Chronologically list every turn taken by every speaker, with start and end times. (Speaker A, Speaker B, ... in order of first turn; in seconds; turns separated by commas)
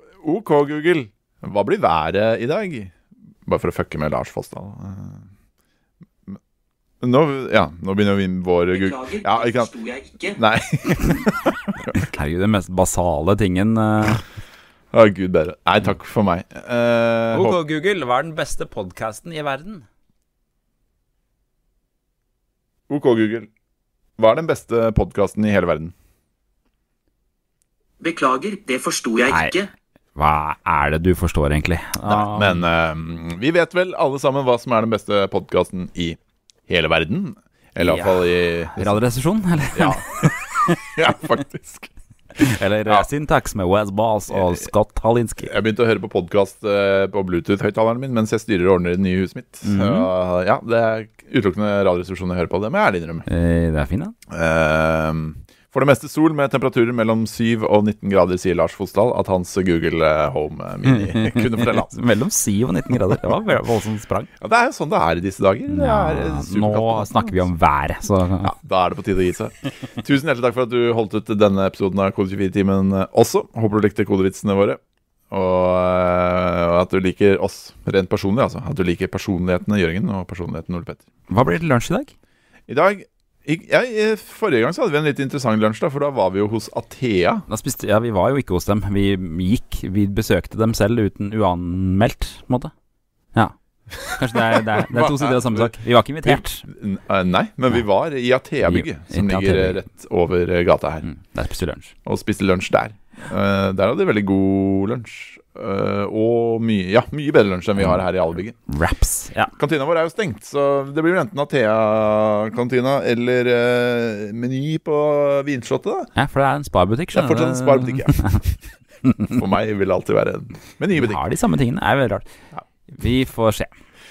Speaker A: 0.2-5.2, Speaker A: 7.0-9.7, Speaker B: 8.7-10.4, Speaker A: 10.3-12.1, Speaker C: 12.1-14.2, Speaker A: 14.9-17.6, Speaker C: 17.3-19.8, Speaker A: 22.9-23.5, Speaker A: 24.2-25.9, Speaker B: 28.0-29.7, Speaker C: 29.3-29.6, Speaker C: 30.1-32.6, Speaker A: 32.0-39.0, Speaker C: 37.8-40.9, Speaker A: 39.7-41.9, Speaker C: 42.4-45.5, Speaker A: 44.3-44.7, Speaker A: 45.4-53.2, Speaker C: 49.6-50.1, Speaker C: 53.3-54.1, Speaker A: 54.3-61.9, Speaker C: 60.9-64.3, Speaker A: 63.1-63.3, Speaker A: 64.4-67.4, Speaker C: 65.7-68.5, Speaker A: 68.4-81.0, Speaker C: 81.3-82.1, Speaker A: 82.7-87.4, Speaker C: 87.5-92.7, Speaker A: 94.0-101.1, Speaker C: 94.1-96.7, Speaker C: 98.6-99.8, Speaker C: 101.0-101.9, Speaker A: 102.0-108.6, Speaker C: 107.8-108.0, Speaker C: 108.7-109.5, Speaker A: 109.5-116.1, Speaker C: 116.2-118.4, Speaker A: 117.1-118.2, Speaker C: 119.0-119.3, Speaker A: 119.2-121.2, Speaker C: 120.9-122.2, Speaker C: 122.9-123.7